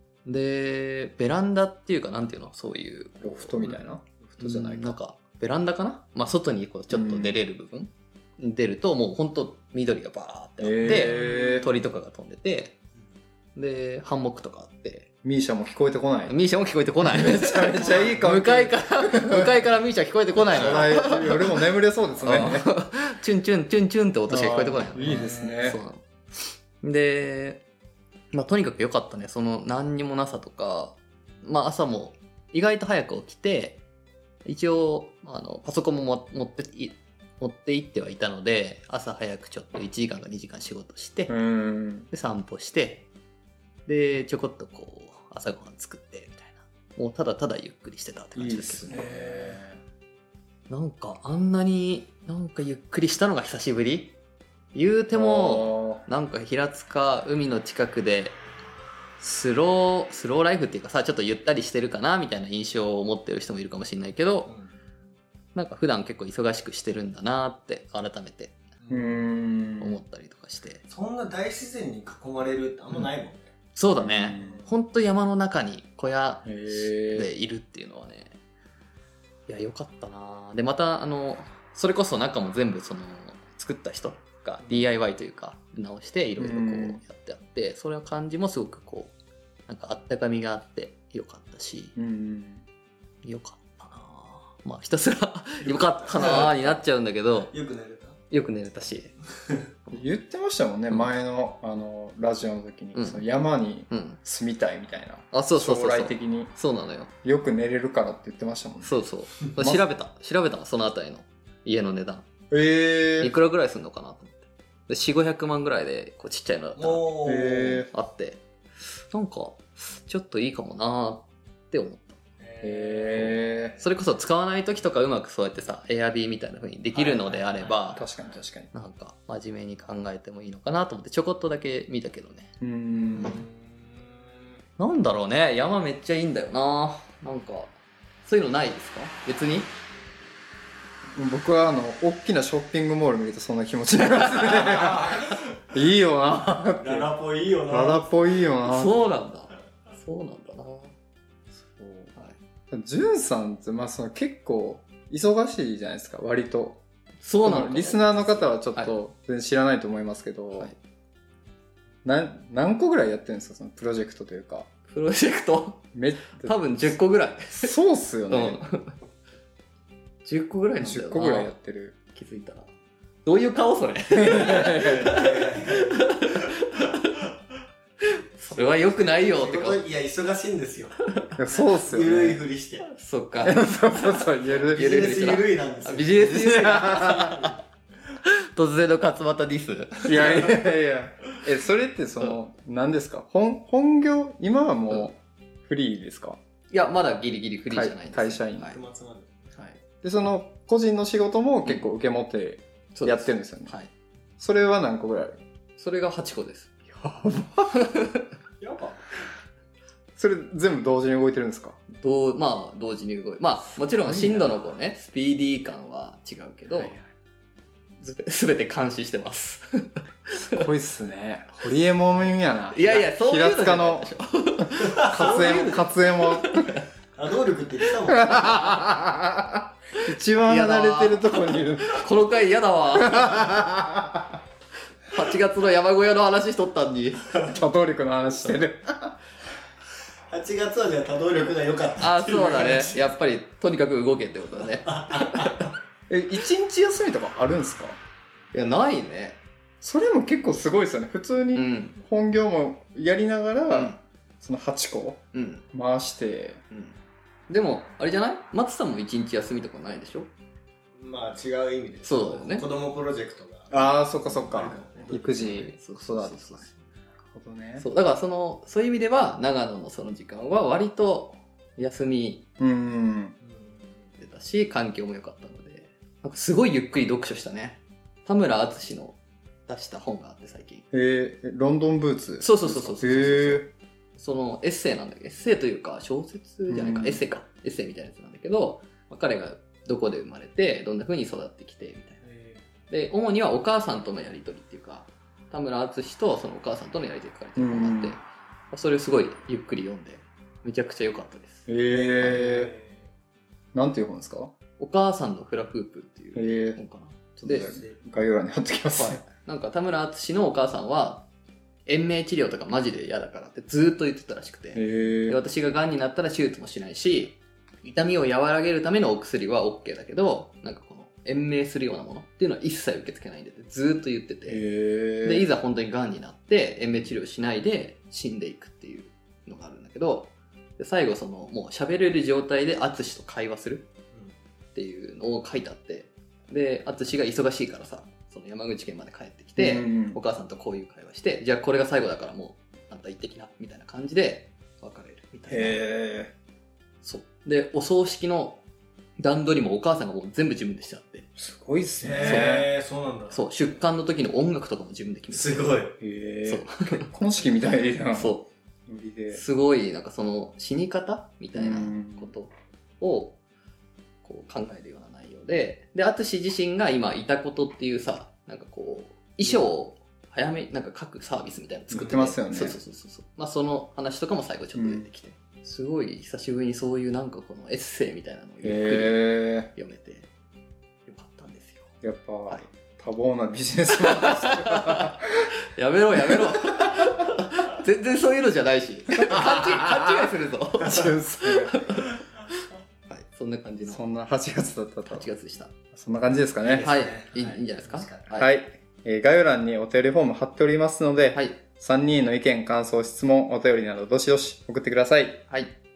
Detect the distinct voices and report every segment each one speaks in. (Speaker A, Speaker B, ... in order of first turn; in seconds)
Speaker A: 0.3-3.8, 4.4-12.8, 13.6-15.1, 16.3-21.6, 22.2-27.6, 28.3-33.8, 34.5-41.4, 42.1-43.1, 43.9-49.1, 50.7-54.2, 54.7-58.4, 59.2-64.5, 65.5-68.5, 69.8-70.8, 73.8-78.3, 79.5-89.1, 89.7-92.0, 93.2-97.5, 98.3-99.1, 103.0-103.3, 103.9-104.2, 105.3-107.1, 108.8-112.3, 113.2-117.1, 117.9-118.4, 119.1-122.2, 123.8-128.1, 128.7-132.5, 134.8-137.7, 138.2-139.7, 148.6-150.9, 157.2-159.0, 164.9-167.7, 168.3-168.9, 170.2-171.6, 172.1-172.7, 173.2-177.1, 178.4-179.9, 182.9-187.5, 188.5-190.6, 196.7-198.8, 199.6-199.8, 202.9-203.9, 205.8-206.7, 207.7-208.3, 211.9-216.9, 218.0-220.7, 222.7-226.9, 230.4-233.6, 235.1-237.3, 242.0-245.7, 248.5-249.4, 251.5-252.0, 253.7-254.0, 255.3-255.7, 256.7-257.0, 257.5-260.3, 262.0-262.6, 265.1-266.7, 267.8-272.4, 274.2-280.9, 282.4-292.2, 292.9-301.7, 304.8-307.7, 308.9-311.3, 311.9-324.7, 325.2-333.9, 334.8-345.9, 347.0-348.6, 349.2-351.3, 352.2-352.6, 353.3-355.7, 356.4-357.1, 358.1-358.5, 359.3-363.4, 364.2-380.3, 381.1-381.9, 383.9-392.5, 393.1-394.0, 395.1-395.7, 396.8-398.5, 401.3-401.6, 405.5-405.7
Speaker B: 3.2-5.0, 6.9-7.4, 10.6-11.8, 15.2-16.4, 17.0-19.6, 20.5-22.7, 24.3-25.8, 41.3-42.1, 48.4-49.8, 55.1-56.0, 68.9-70.0, 74.0-74.6, 76.5-77.3, 86.4-87.0, 92.0-92.6, 99.9-106.6, 107.2-109.0, 109.6-109.9, 112.5-113.3, 117.2-117.9, 122.6-123.8, 128.0-128.7, 132.6-133.4, 141.2-147.1, 147.7-148.9, 151.6-152.2, 152.7-156.8, 157.4-160.7, 162.0-164.7, 165.9-166.9, 167.6-168.6, 170.8-172.0, 174.1-175.1, 181.4-182.4, 183.4-185.5, 186.3-187.4, 190.1-196.4, 197.7-198.7, 200.0-203.8, 204.4-205.4, 206.9-207.8, 210.2-211.8, 214.0-214.7, 216.7-217.1, 220.6-226.8, 228.1-232.1, 232.9-234.4, 237.5-239.2, 246.1-248.0, 249.8-256.6, 263.7-266.7, 267.3-267.9, 272.6-273.4, 280.9-283.7, 286.7-287.3, 297.6-298.2, 301.7-302.7, 303.8-304.5, 306.4-306.8, 307.4-309.2, 314.8-315.4, 324.5-325.5, 339.6-340.2, 345.5-346.3, 351.4-352.7, 356.0-359.4, 361.6-362.3, 371.9-372.8, 374.7-375.1, 378.6-379.7, 382.0-385.5, 386.3-387.1, 389.4-391.8, 393.8-395.3, 395.9-396.9, 398.4-405.5
Speaker C: 10.8-11.8, 17.8-18.3, 20.5-21.3, 25.0-25.7, 48.9-49.6, 64.5-64.8, 68.8-69.4, 70.9-73.5, 74.3-74.7, 84.6-84.9, 95.6-96.8, 97.5-98.2, 99.3-99.6, 116.8-117.9, 122.4-124.0, 126.9-128.4, 132.9-134.4, 144.7-145.4, 146.8-148.4, 174.6-176.5, 178.5-182.9, 184.6-187.6, 198.6-199.5, 208.6-209.1, 224.9-225.8, 227.2-228.8, 237.3-237.6, 240.3-243.1, 244.6-245.7, 261.0-265.3, 273.4-274.1, 292.2-292.6, 301.9-303.1, 307.4-308.1, 352.0-353.7, 355.3-356.0, 396.6-398.4